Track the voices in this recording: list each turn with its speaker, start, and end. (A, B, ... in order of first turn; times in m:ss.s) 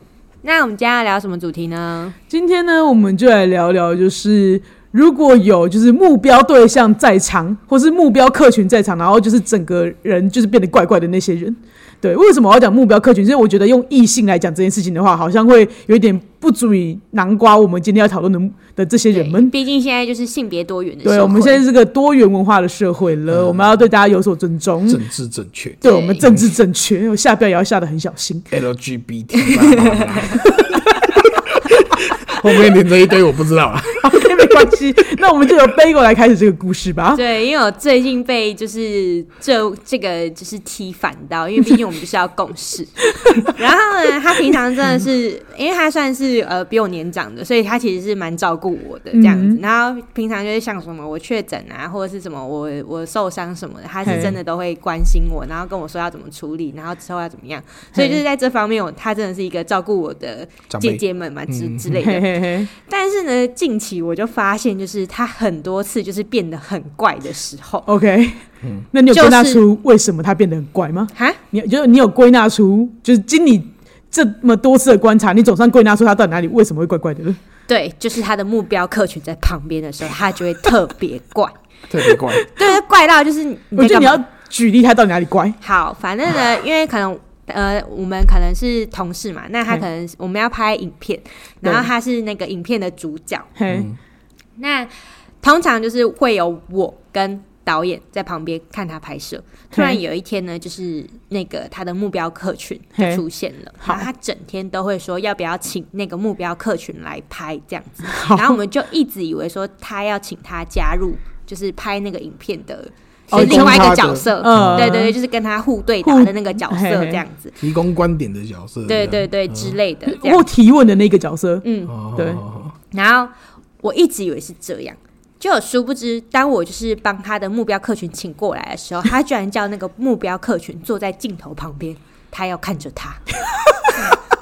0:00.4-0:02.2 A
0:02.3-0:19.5 B
0:19.1-0:21.6 A
0:21.0-0:25.0 B
0:23.3-0:23.8 C
0:24.9-0:26.4 C
0:25.8-0:28.4 B
0:25.8-0:26.2 A
0:28.5-0:30.4 C
0:29.3-0:30.5 A
0:31.5-0:34.4 C
0:34.0-0:37.2 B
0:37.1-1:07.9 A
0:49.1-0:49.6 B
0:54.0-0:54.3 B
0:57.9-0:58.2 B
1:00.7-1:02.0 C
1:02.0-1:02.7 B
1:07.8-1:17.4 B
1:09.1-1:09.6 A
1:17.7-1:21.5 A
1:21.9-1:22.4 C
1:22.1-1:22.7 B
1:22.6-1:24.2 A
1:23.7-1:25.6 B
1:25.6-1:33.5 A
1:33.6-1:33.9 B
1:33.7-1:34.0 C
1:34.6-1:34.9 A
1:35.4-1:57.5 A
1:39.7-1:40.0 B
1:43.0-1:43.2 B
1:48.1-1:48.6 B
1:53.3-1:54.9 C
1:53.3-1:55.1 B
1:56.0-1:57.2 B
1:57.6-1:59.8 C
1:58.9-2:00.4 A
2:00.1-2:01.6 B
2:01.6-2:01.9 A
2:01.9-2:02.7 C
2:02.2-2:02.4 B
2:02.9-2:13.2 A